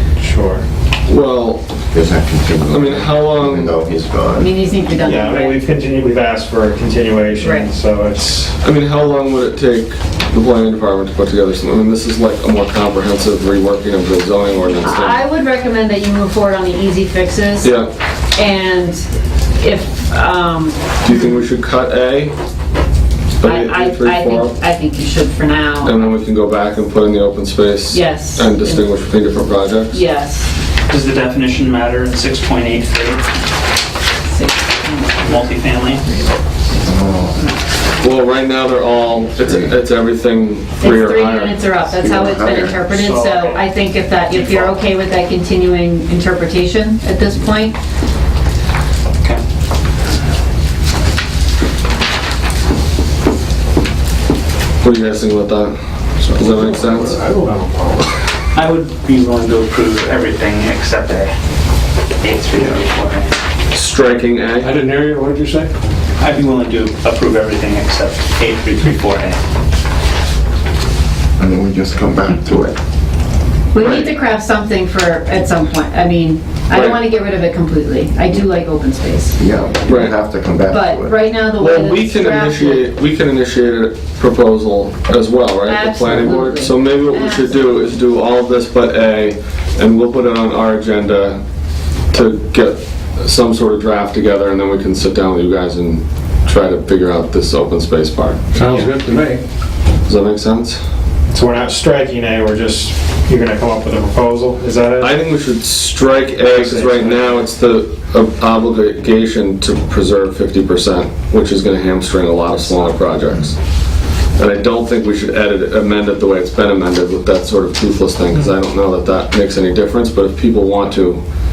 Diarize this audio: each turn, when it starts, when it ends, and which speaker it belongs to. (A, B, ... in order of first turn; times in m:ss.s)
0:00.2-0:00.6 A
0:01.0-0:01.7 B
0:01.9-0:04.5 C
0:02.7-0:03.8 B
0:04.4-0:05.6 D
0:04.9-0:08.6 A
0:07.4-0:07.7 D
0:08.6-0:15.2 B
0:14.8-0:17.7 D
0:17.6-0:17.9 B
0:18.3-0:20.9 D
0:21.0-0:22.3 B
0:23.4-0:24.5 B
0:23.4-0:26.0 D
0:25.8-0:30.0 B
0:27.9-0:28.9 D
0:29.9-0:30.5 D
0:30.9-0:33.2 E
0:34.2-0:35.4 D
0:35.2-0:36.0 E
0:36.8-0:37.4 C
0:38.0-0:41.6 B
0:40.8-0:47.8 D
0:41.9-0:42.9 C
0:43.0-0:43.5 A
0:54.8-0:57.2 B
0:56.3-0:58.0 F
0:58.5-1:01.3 E
1:02.2-1:03.3 E
1:03.7-1:04.7 B
1:04.6-1:05.7 F
1:06.2-1:09.4 E
1:11.4-1:12.8 C
1:13.7-1:19.4 D
1:13.8-1:14.1 B
1:16.7-1:17.0 B
1:19.4-1:21.3 C
1:19.8-1:20.2 B
1:20.7-1:22.8 D
1:21.6-1:31.4 B
1:25.6-1:27.5 D
1:32.1-1:38.4 B
1:38.5-1:39.4 F
1:40.0-1:40.8 B
1:41.3-1:45.2 A
1:45.0-1:53.6 B
1:46.4-1:47.3 A
1:54.4-2:01.2 B